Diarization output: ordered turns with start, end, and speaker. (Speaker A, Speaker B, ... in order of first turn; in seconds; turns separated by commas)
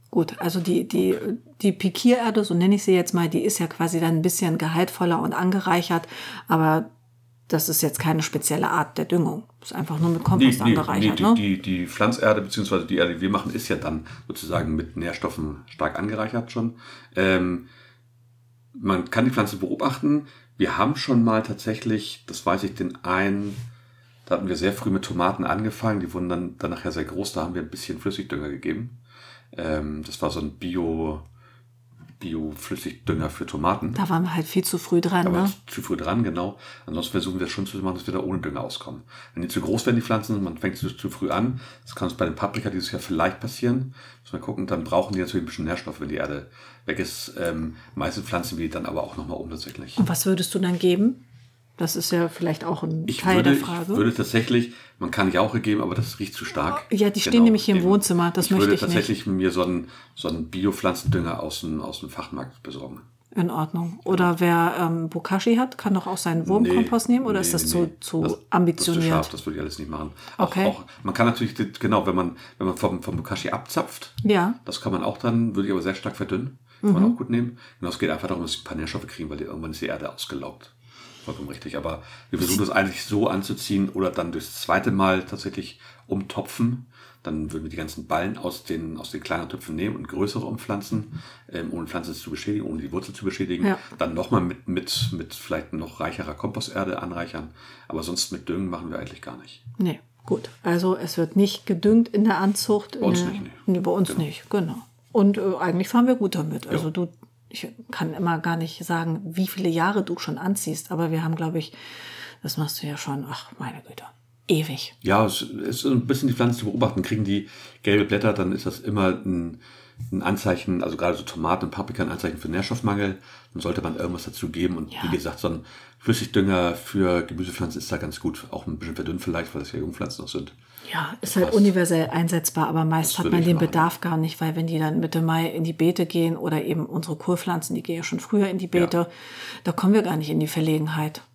Speaker A: 0.1-6.9, Speaker A: 7.5-11.4, Speaker B: 10.3-17.7, Speaker B: 18.7-23.6, Speaker B: 24.2-29.0, Speaker B: 29.5-31.2, Speaker B: 32.2-34.0, Speaker A: 33.9-35.5, Speaker B: 35.2-50.0, Speaker A: 50.0-51.2, Speaker A: 51.8-54.1, Speaker B: 53.1-63.0, Speaker A: 56.8-59.1, Speaker A: 63.3-69.3, Speaker B: 66.4-80.7, Speaker A: 70.4-70.8, Speaker A: 74.2-74.6, Speaker A: 76.8-77.2, Speaker B: 81.2-99.6, Speaker A: 99.8-111.7, Speaker B: 103.0-104.2, Speaker A: 112.4-114.9, Speaker B: 115.0-130.5, Speaker A: 130.8-141.2, Speaker B: 131.2-131.7, Speaker B: 133.0-133.9